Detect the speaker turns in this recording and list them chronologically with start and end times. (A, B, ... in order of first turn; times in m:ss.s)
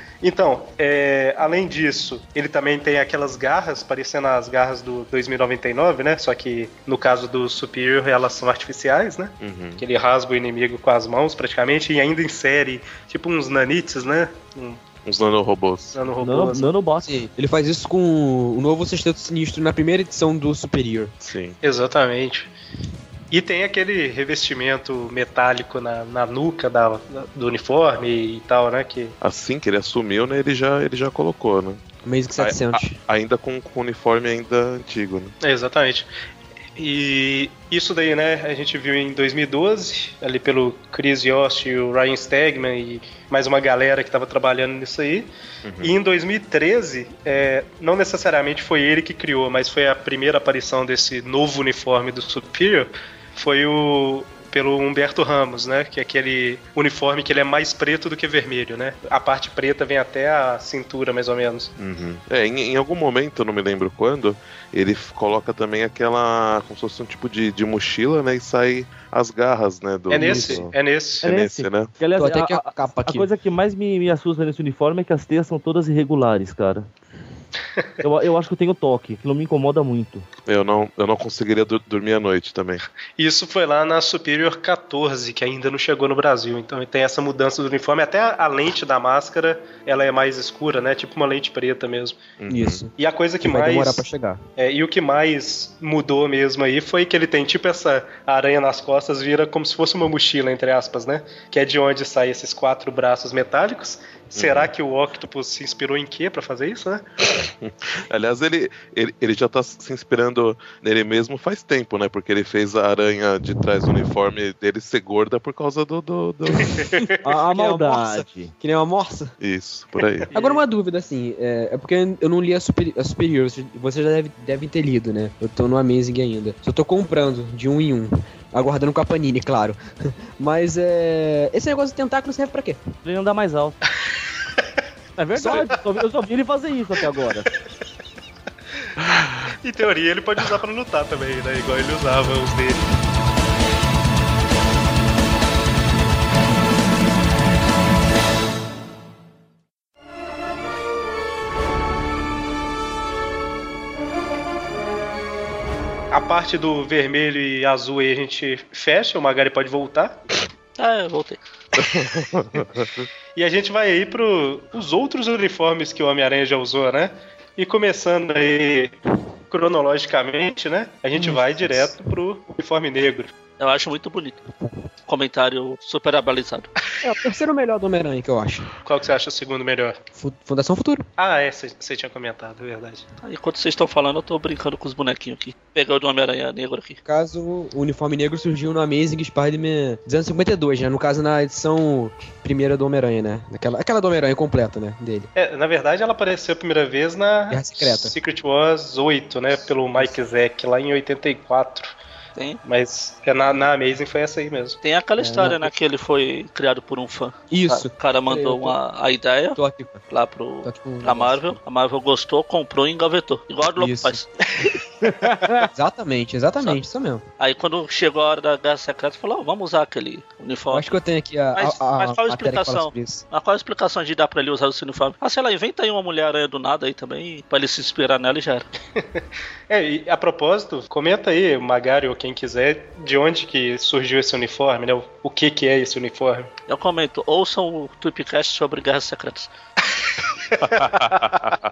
0:00.2-0:14.8 A
0:09.4-0:09.8 B
0:15.0-0:16.0 B
0:15.9-0:16.7 A
0:16.2-0:17.2 C
0:17.0-0:21.1 D
0:21.2-0:21.6 B
0:21.6-0:22.5 A
0:23.3-0:29.2 A
0:29.2-0:31.8 B
0:32.0-0:33.0 D
0:32.4-0:35.3 B
0:35.4-0:36.1 A
0:36.8-0:45.3 A
0:45.6-0:45.9 B
0:45.8-1:01.7 A
1:01.8-1:10.7 B
1:10.1-1:11.3 A
1:10.2-1:10.6 D
1:11.2-1:16.9 C
1:11.2-1:11.9 B
1:12.2-1:13.3 D
1:18.0-1:20.3 C
1:20.5-1:22.8 B
1:23.2-1:32.3 A
1:32.4-1:32.9 B
1:32.5-1:34.4 D
1:33.0-1:34.0 A
1:34.6-1:47.0 A
1:44.4-1:44.7 B
1:47.4-1:56.8 B
1:56.6-1:57.1 A
1:57.2-1:58.5 C
1:57.5-1:59.4 D
1:59.4-2:00.3 B
2:00.3-2:00.6 A
2:00.3-2:09.8 D
2:10.4-2:12.8 D
2:13.0-2:13.8 C
2:15.2-2:17.5 C
2:15.4-2:15.7 D
2:19.6-2:22.8 A
2:36.1-2:40.2 A
2:40.8-2:41.4 E
2:41.8-2:43.1 B
2:43.4-2:49.0 A
2:49.5-2:53.3 A
2:51.2-2:52.0 D
2:53.6-2:54.4 E
2:55.1-2:56.7 E
2:57.0-2:58.7 D
2:58.8-3:00.0 A
3:00.2-3:01.1 D
3:01.2-3:03.0 A
3:03.2-3:07.0 E
3:07.0-3:15.3 D
3:15.4-3:22.0 A
3:17.5-3:18.1 D
3:22.6-3:24.8 A
3:24.8-3:29.6 E
3:25.2-3:25.7 D
3:27.5-3:28.8 D
3:29.6-3:30.0 D
3:30.1-3:34.3 E
3:30.6-3:31.6 D
3:33.8-3:34.2 D
3:34.6-3:35.4 A
3:35.1-3:37.2 D
3:37.4-3:40.9 E
3:40.7-3:43.2 D
3:41.6-3:48.7 E
3:49.0-3:56.5 A
3:56.7-3:59.5 E
4:00.5-4:01.4 A
4:00.8-4:01.6 B